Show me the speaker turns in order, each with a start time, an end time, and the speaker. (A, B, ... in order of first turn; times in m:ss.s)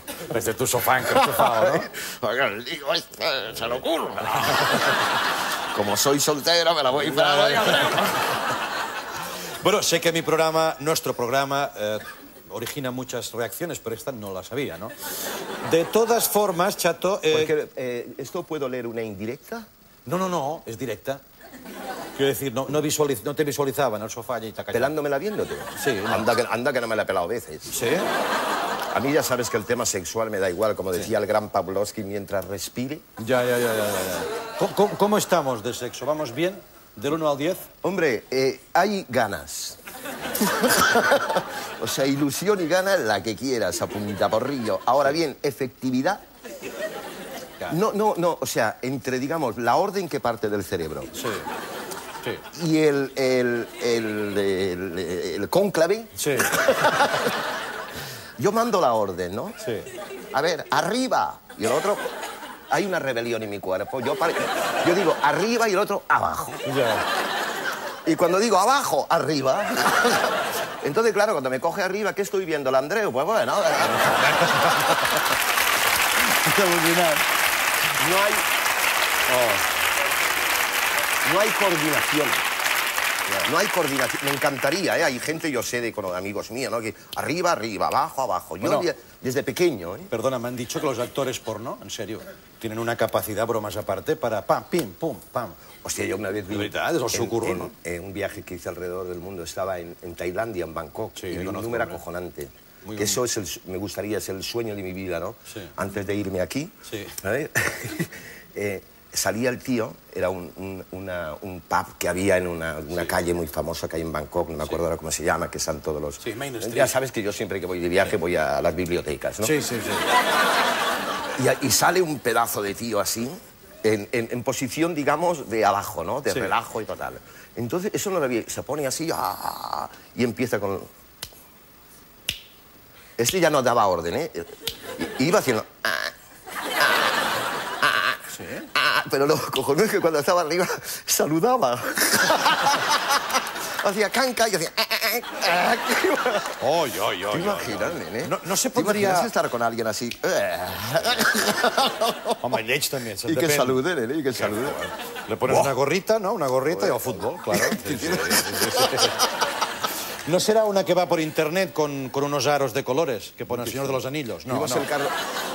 0:00.2-0:01.9 A
0:01.1-0:05.2 B
0:04.2-0:05.2 A
0:05.7-0:08.3 B
0:06.9-0:08.4 A
0:09.6-0:14.9 A
0:15.6-0:17.5 A
0:17.3-0:19.7 B
0:20.1-0:21.2 A
0:22.2-0:24.9 A
0:24.7-0:27.8 B
0:25.8-0:26.3 A
0:27.7-0:28.1 A
0:28.9-0:33.0 B
0:33.2-0:37.7 A
0:37.8-0:39.8 B
0:40.4-0:46.2 B
0:47.7-0:51.1 B
0:51.1-0:51.5 A
0:52.5-0:57.4 B
0:56.2-0:56.7 A
0:58.4-0:59.6 B
0:59.6-0:59.9 A
1:00.3-1:02.0 B
1:02.7-1:06.7 B
1:06.6-1:07.1 A
1:08.0-1:14.8 B
1:13.9-1:15.3 A
1:16.3-1:17.3 A
1:18.0-1:18.5 B
1:19.3-1:19.6 A
1:21.2-1:22.4 B
1:23.4-1:30.1 B
1:28.6-1:28.9 A
1:30.1-1:35.6 A
1:35.8-1:59.5 B
1:36.5-1:37.7 A
1:41.2-1:42.0 A
1:42.8-1:43.2 A
1:46.9-1:47.2 A
1:56.2-1:57.0 A
1:59.4-2:00.1 A
2:01.4-2:10.9 B
2:06.3-2:06.6 A
2:13.2-2:16.1 B
2:17.8-2:26.6 B
2:18.3-2:18.7 A
2:26.6-2:29.3 A
2:27.3-2:32.4 B
2:32.4-2:39.2 A
2:33.2-2:34.9 B
2:36.7-2:39.2 B
2:40.3-2:44.9 A
2:43.5-2:45.2 B